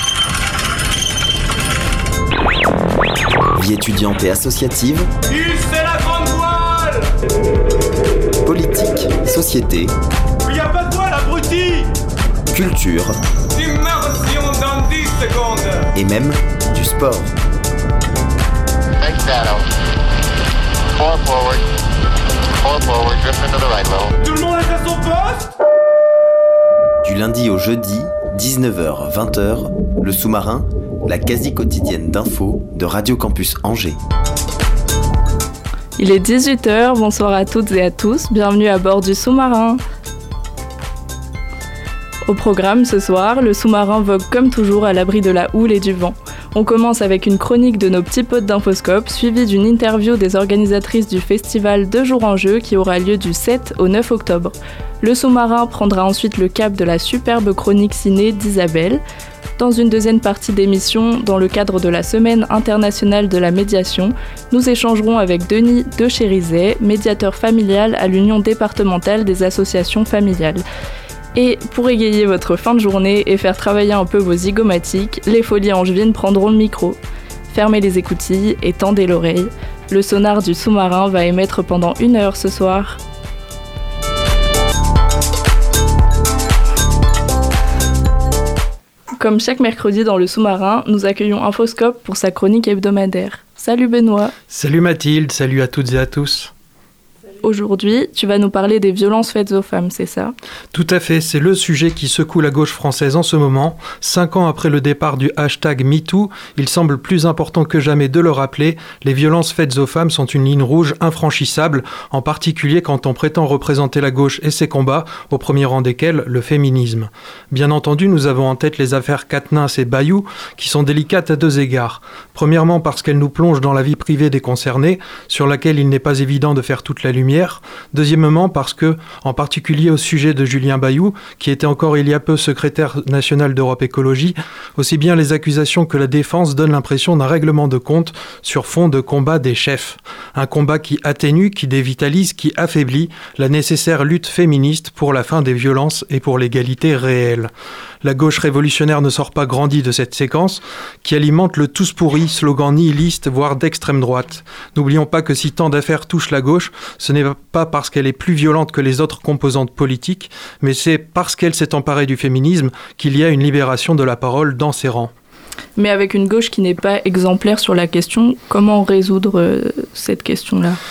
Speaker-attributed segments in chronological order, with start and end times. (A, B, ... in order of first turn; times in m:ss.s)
0:03.6-0:05.1 A
0:05.3-0:07.1 B
0:08.4-0:09.9 A
0:10.4-0:11.9 B
0:12.5-0:13.2 A
0:13.5-0:15.9 B
0:15.9-0:17.3 A
0:19.0-0:19.6 C
0:20.9-0:21.6 C
0:22.6-0:24.1 C
0:24.2-0:25.5 B
0:27.0-0:34.0 A
0:36.0-0:39.8 D
0:42.2-0:59.0 D
0:59.6-1:10.6 D
1:11.3-1:17.0 D
1:17.5-1:23.0 D
1:29.2-1:34.3 D
1:34.5-1:36.5 E
1:37.4-1:40.3 D
1:40.7-2:27.5 E
2:28.0-2:45.1 E
2:45.8-2:50.8 D